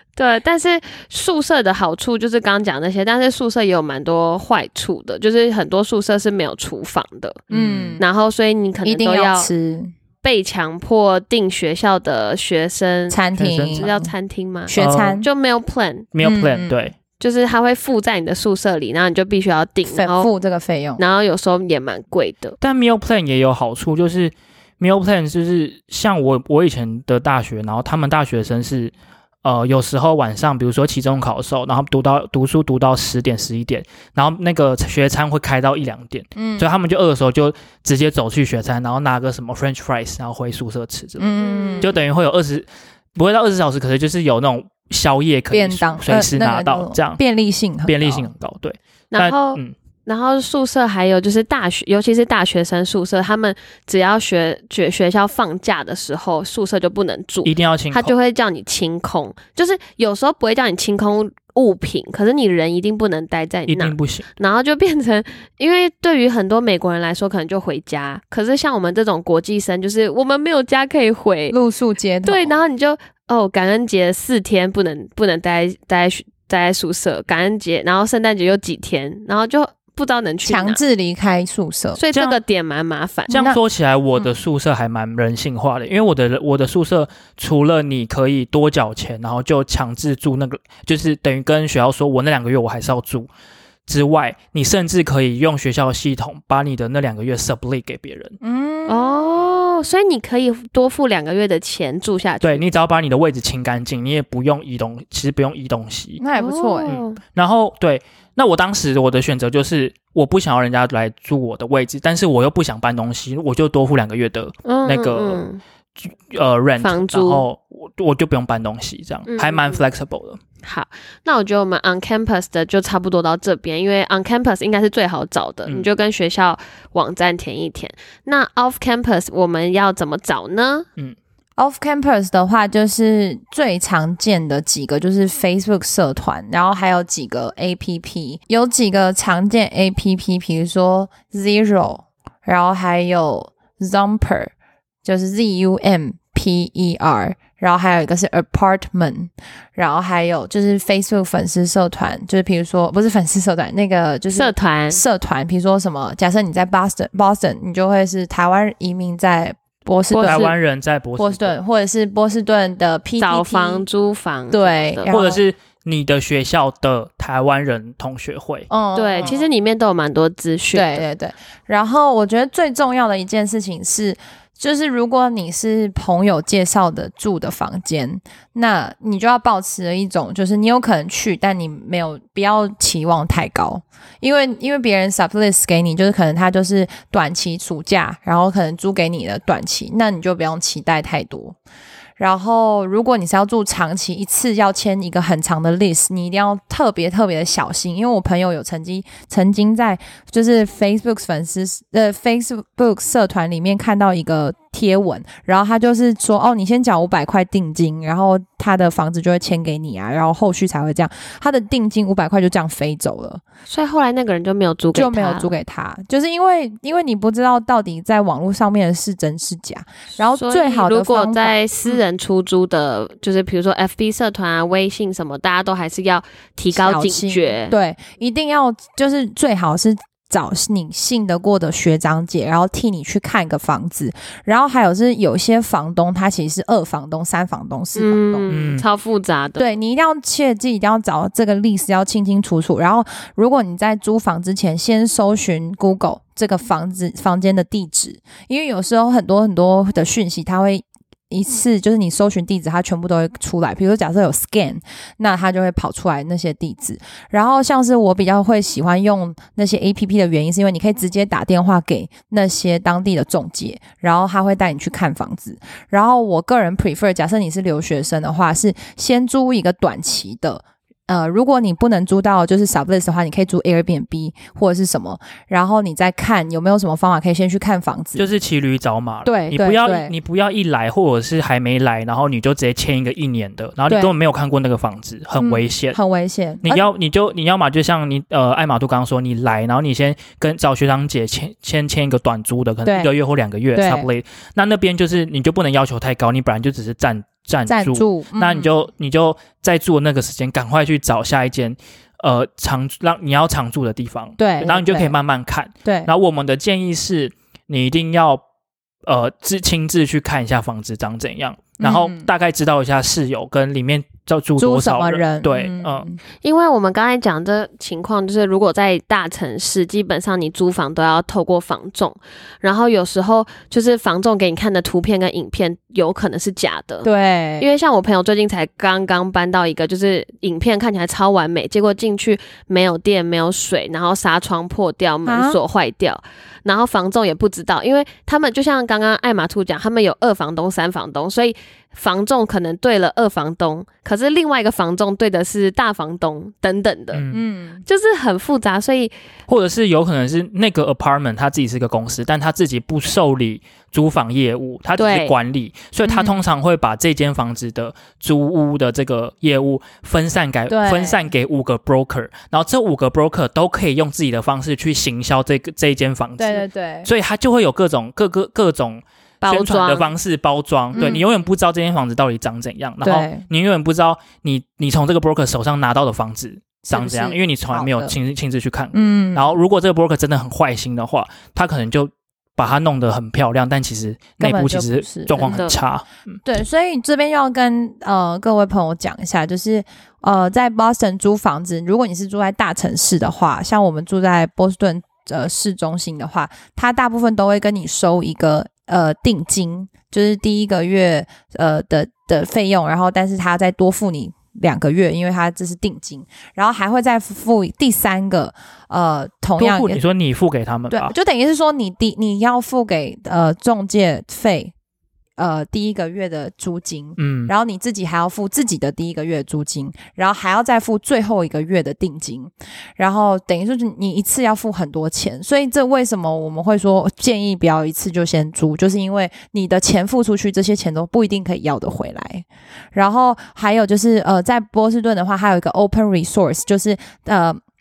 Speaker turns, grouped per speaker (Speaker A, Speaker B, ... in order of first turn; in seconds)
Speaker A: 0.1-7.4, 8.0-9.5, 10.2-13.2, 13.8-16.1, 17.2-20.3, 21.0-22.6, 41.4-41.9, 49.1-71.6, 72.2-80.8, 82.0-83.4, 98.9-102.6, 106.3-107.2, 114.7-115.6, 116.8-117.4, 119.3-119.8, 120.6-130.9, 154.3-155.0, 160.1-160.5, 163.2-165.1, 168.9-171.0, 213.7-215.5, 220.3-227.7, 237.9-239.7, 316.4-327.1, 327.6-347.2, 347.9-349.1, 355.0-355.3, 369.4-370.1, 385.4-385.8
Speaker B: 7.5-8.0, 13.3-13.9, 14.7-15.2, 16.1-16.9, 22.6-28.9, 29.4-47.2, 47.9-49.7, 57.4-58.1, 63.7-64.3, 82.1-82.4, 83.3-93.3, 93.9-98.3, 102.4-106.2, 106.8-115.4, 116.0-120.4, 160.2-161.5, 165.1-168.7, 238.5-238.8, 278.2-286.0, 286.6-308.4, 309.1-316.1, 347.1-347.4, 349.5-386.1, 409.6-411.1, 417.2-417.5
Speaker C: 7.5-8.0, 8.8-9.9, 13.1-14.1, 14.7-15.3, 16.2-16.8, 19.9-21.0, 36.4-36.7, 41.2-42.0, 45.5-48.3, 71.5-72.5, 80.4-82.0, 83.3-83.6, 98.4-99.3, 106.2-106.9, 131.6-144.5, 145.0-160.5, 161.2-163.8, 164.5-165.4, 168.7-169.5, 170.7-191.6, 192.2-213.4, 214.9-222.0, 226.7-238.5, 239.6-278.3, 279.2-280.1, 285.4-286.9, 292.8-293.1, 293.7-294.1, 297.7-298.7, 304.4-305.1, 305.8-306.1, 311.8-312.3, 314.6-316.2, 327.0-327.7, 335.2-335.6, 347.3-347.8, 356.0-356.4, 360.7-361.3, 366.4-367.1, 370.9-371.2, 373.0-373.4, 376.9-378.1, 378.9-379.6, 384.4-385.7, 386.4-410.0, 410.9-414.7, 415.4-437.6